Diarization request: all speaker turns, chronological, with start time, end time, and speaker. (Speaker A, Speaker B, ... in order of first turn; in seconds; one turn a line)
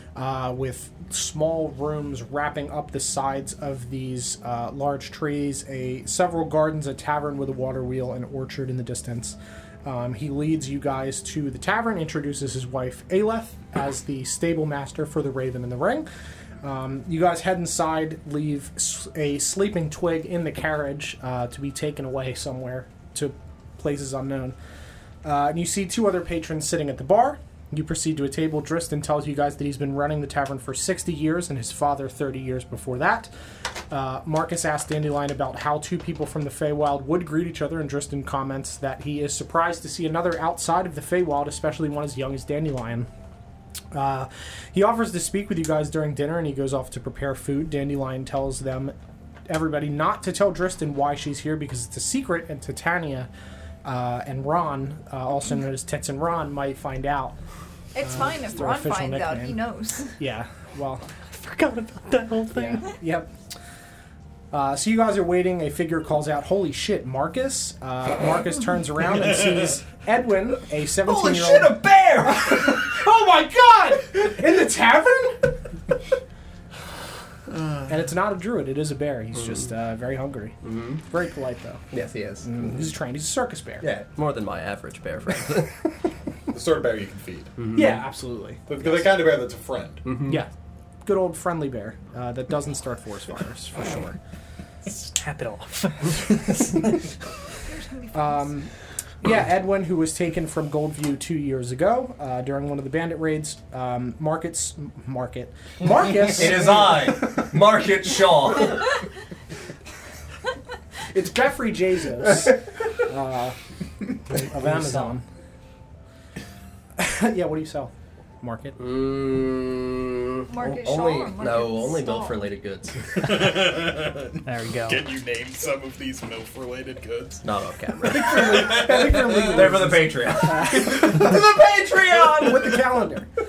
Speaker A: 0.1-16.1
Speaker A: 16.6-24.6
Speaker A: 25.2-33.3
Speaker A: 33.9-43.1
Speaker A: 43.9-49.0
Speaker A: 49.5-53.3
Speaker A: 53.8-57.4
Speaker B: 57.9-60.1
Speaker A: 58.0-59.6
Speaker A: 60.2-63.4
Speaker A: 64.5-75.6
Speaker C: 71.1-72.8
Speaker A: 77.9-81.8
Speaker C: 80.6-81.0
Speaker C: 81.9-82.8
Speaker A: 82.5-83.9
Speaker C: 83.8-85.8
Speaker D: 86.5-87.7
Speaker C: 87.6-87.9
Speaker A: 87.7-89.3
Speaker D: 88.7-90.3
Speaker C: 90.0-90.4
Speaker A: 90.2-90.5
Speaker A: 91.0-94.2
Speaker E: 94.8-96.9
Speaker B: 97.7-98.6
Speaker A: 98.1-98.7
Speaker A: 99.2-107.2
Speaker C: 106.2-108.9
Speaker A: 111.1-113.6
Speaker A: 114.3-115.2
Speaker E: 114.3-115.2
Speaker A: 117.0-118.8
Speaker C: 118.8-123.4
Speaker B: 120.5-122.6
Speaker D: 123.2-129.7
Speaker E: 124.4-125.1
Speaker C: 127.4-131.3
Speaker A: 128.2-133.3
Speaker D: 131.3-132.3